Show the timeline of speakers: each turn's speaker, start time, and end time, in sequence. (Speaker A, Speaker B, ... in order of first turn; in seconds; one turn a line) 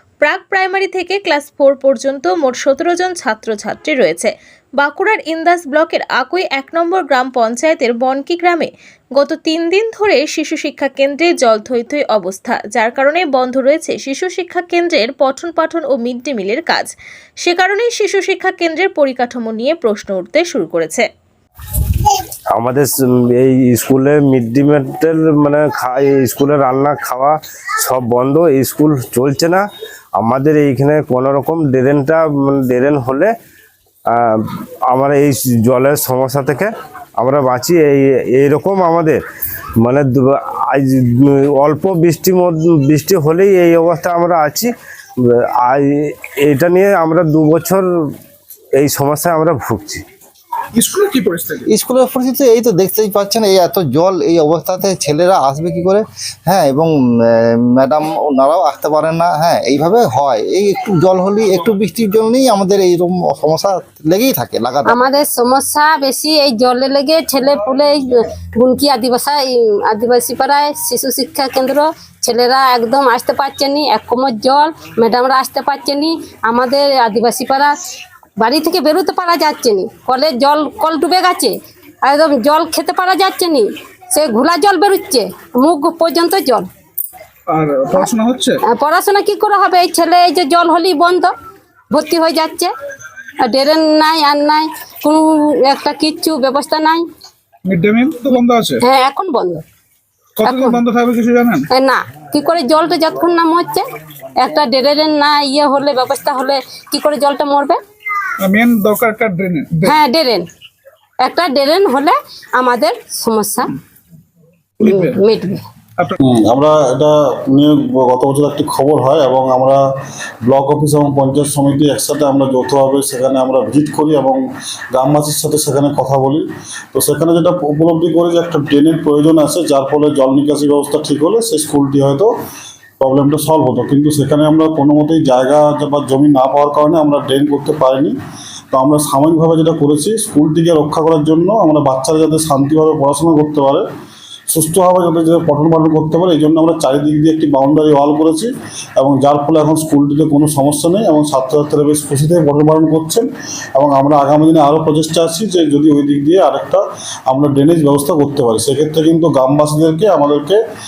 Speaker A: 0.2-21.1
Speaker B: 22.5-29.6
Speaker B: 30.2-33.3
Speaker B: 34.1-39.2
Speaker B: 39.8-44.7
Speaker B: 45.3-47.8
Speaker B: 48.8-50.0
Speaker C: 50.8-51.7
Speaker D: 51.7-65.0
Speaker E: 64.9-77.7
Speaker E: 78.4-81.5
Speaker E: 82.1-86.7
Speaker C: 87.5-88.6
Speaker E: 88.6-91.3
Speaker E: 91.9-92.7
Speaker E: 93.4-97.0
Speaker C: 97.7-98.8
Speaker E: 98.8-99.6
Speaker C: 100.4-101.6
Speaker E: 100.4-100.8
Speaker E: 101.7-103.9
Speaker E: 104.4-107.8
Speaker C: 108.4-110.0
Speaker E: 109.8-110.5
Speaker E: 111.2-113.7
Speaker E: 114.8-115.6
Speaker C: 114.8-115.2
Speaker F: 116.2-119.8
Speaker F: 120.5-124.4
Speaker F: 124.9-132.3
Speaker F: 133.0-138.1
Speaker F: 138.7-143.9
Speaker F: 144.5-160.6